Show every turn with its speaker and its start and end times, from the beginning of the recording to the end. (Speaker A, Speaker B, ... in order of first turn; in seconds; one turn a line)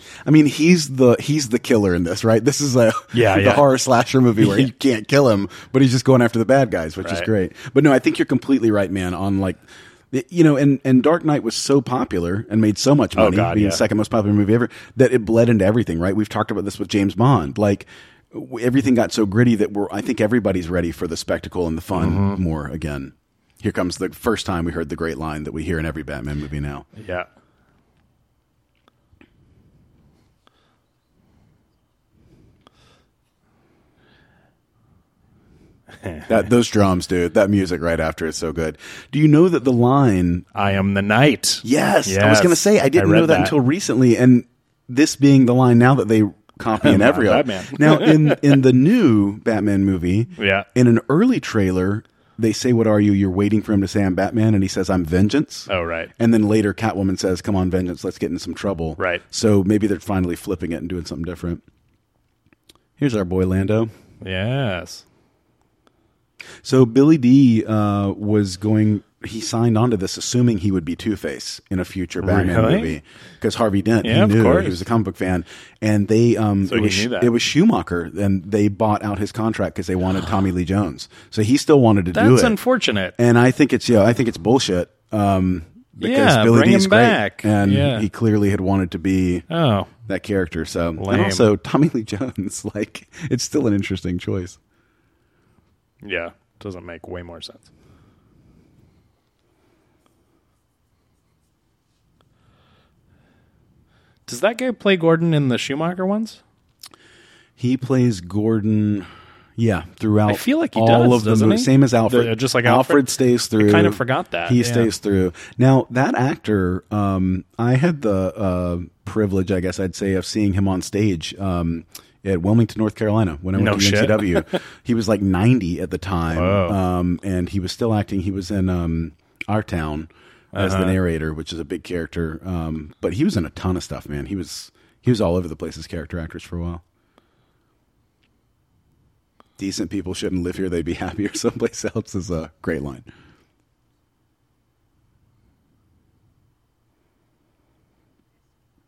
Speaker A: 0.2-26.9
Speaker B: 3.1-3.7
Speaker B: 4.4-4.7
Speaker B: 7.0-7.3
Speaker B: 13.2-13.8
Speaker B: 21.9-22.4
Speaker B: 27.0-27.3
Speaker B: 36.0-36.3
Speaker A: 36.3-40.5
Speaker B: 40.5-43.5
Speaker A: 41.6-61.6
Speaker B: 46.8-48.6
Speaker B: 50.4-50.7
Speaker B: 55.7-56.1
Speaker B: 59.0-59.2
Speaker A: 63.0-63.9
Speaker B: 64.2-65.0
Speaker A: 66.6-82.6
Speaker B: 72.2-73.0
Speaker B: 74.0-74.8
Speaker B: 76.7-77.3
Speaker B: 82.1-83.2
Speaker A: 83.2-89.5
Speaker B: 86.0-88.1
Speaker B: 89.5-89.9
Speaker A: 90.1-94.6
Speaker B: 91.0-91.5
Speaker B: 96.0-97.7
Speaker B: 104.3-106.4
Speaker A: 107.6-136.8
Speaker B: 110.3-114.9
Speaker B: 123.6-124.6
Speaker B: 126.3-126.8
Speaker B: 130.5-131.0
Speaker A: 139.6-143.1